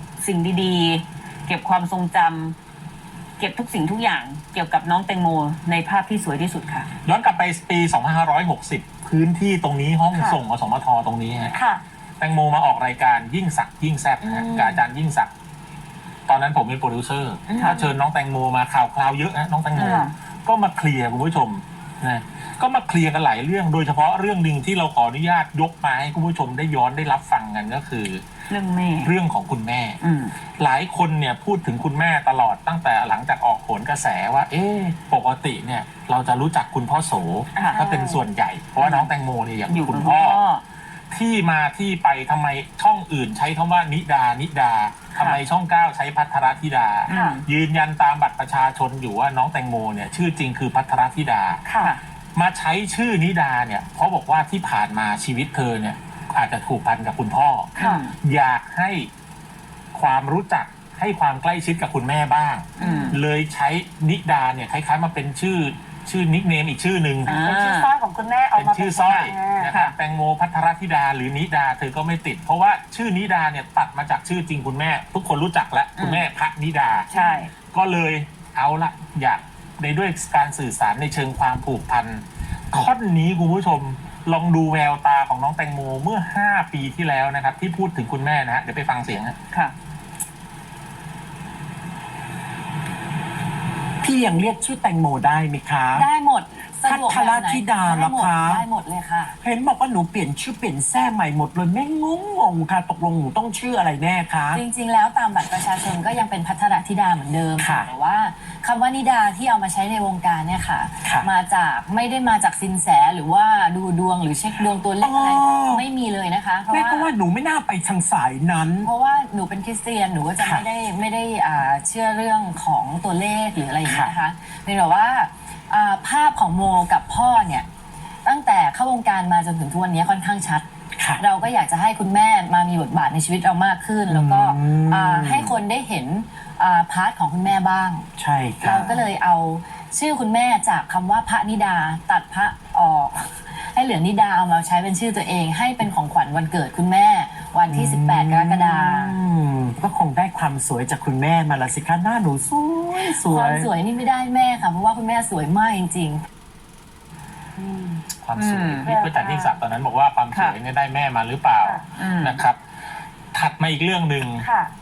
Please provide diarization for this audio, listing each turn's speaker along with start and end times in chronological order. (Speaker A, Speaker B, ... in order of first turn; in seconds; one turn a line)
Speaker A: 0.2-2.5
Speaker A: 3.4-6.9
Speaker B: 7.0-11.6
Speaker B: 12.2-15.3
Speaker C: 14.2-14.8
Speaker B: 16.3-28.3
Speaker C: 17.5-17.9
Speaker A: 17.5-17.8
Speaker A: 19.7-20.1
Speaker D: 19.8-20.1
Speaker A: 28.5-29.1
Speaker B: 29.0-30.0
Speaker A: 30.0-30.3
Speaker B: 30.6-40.4
Speaker D: 37.6-38.2
Speaker A: 38.8-39.1
Speaker A: 39.7-40.6
Speaker B: 41.1-51.6
Speaker A: 45.1-45.4
Speaker A: 47.1-47.4
Speaker B: 52.4-59.1
Speaker A: 57.8-58.1
Speaker D: 57.8-58.0
Speaker B: 59.9-67.3
Speaker A: 62.8-63.2
Speaker D: 67.2-69.7
Speaker A: 67.3-67.9
Speaker B: 68.5-77.1
Speaker A: 76.0-76.2
Speaker A: 77.1-77.5
Speaker D: 77.1-77.4
Speaker B: 77.7-89.4
Speaker E: 94.0-96.1
Speaker C: 95.9-99.4
Speaker E: 96.8-98.6
Speaker E: 99.4-104.6
Speaker C: 104.5-117.1
Speaker E: 107.6-107.9
Speaker E: 111.0-111.3
Speaker E: 115.0-115.8
Speaker E: 116.7-118.9
Speaker C: 118.8-127.7
Speaker E: 120.4-120.7
Speaker E: 123.8-124.1
Speaker C: 128.2-130.6
Speaker E: 131.0-131.2
Speaker C: 131.2-138.1
Speaker E: 134.1-135.6
Speaker E: 138.2-139.1
Speaker C: 138.6-149.1
Speaker E: 147.7-153.7
Speaker C: 153.0-156.2
Speaker D: 157.6-158.0
Speaker B: 158.2-162.6
Speaker A: 158.4-158.9
Speaker D: 158.8-159.6
Speaker A: 161.9-162.4
Speaker B: 163.3-164.5
Speaker D: 164.3-164.7